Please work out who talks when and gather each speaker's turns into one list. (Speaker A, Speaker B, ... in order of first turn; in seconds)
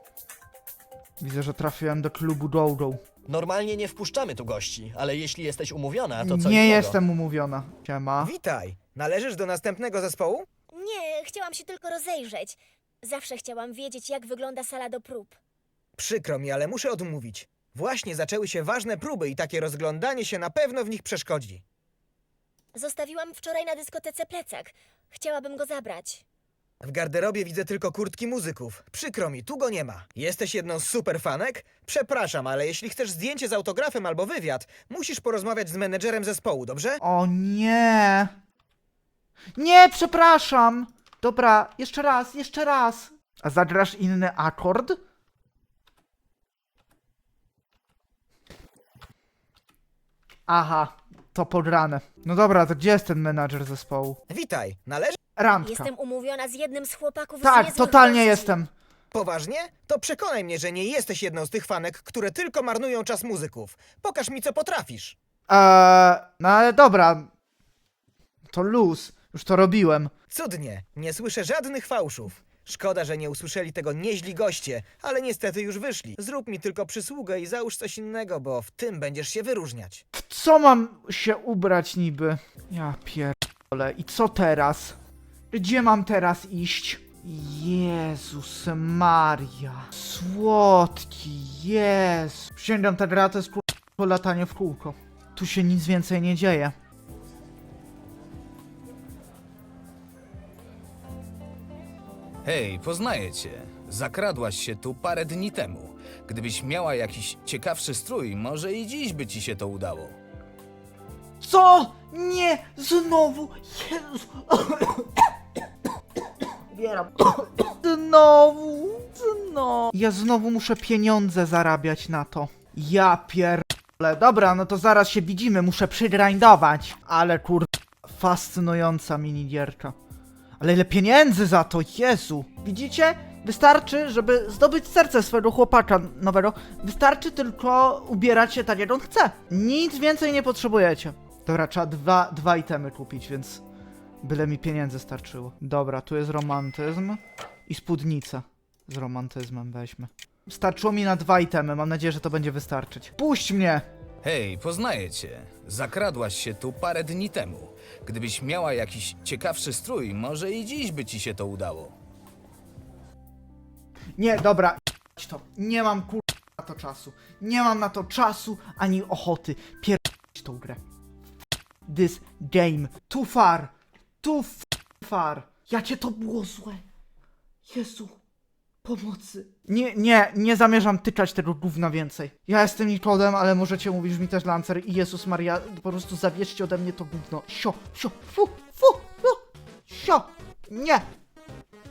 Speaker A: 1.2-3.0, 6.2-8.3, 37.0-38.3, 39.6-45.0, 50.5-54.2, 55.4-55.9, 57.4-58.7, 65.5-67.3, 68.5-70.1, 80.1-85.0, 85.5-96.7, 111.4-115.3, 116.7-129.9, 130.6-143.6, 144.2-153.8, 164.2-170.8, 171.9-176.8, 177.7-178.2, 178.8-191.1
Speaker B: 3.3-7.0
Speaker C: 8.2-10.5, 16.0-21.6, 26.8-37.0, 54.3-55.2, 59.1-65.2, 70.3-80.0
Speaker D: 10.7-15.4, 22.7-26.2, 55.6-58.6
Speaker E: 102.4-110.2, 154.2-161.9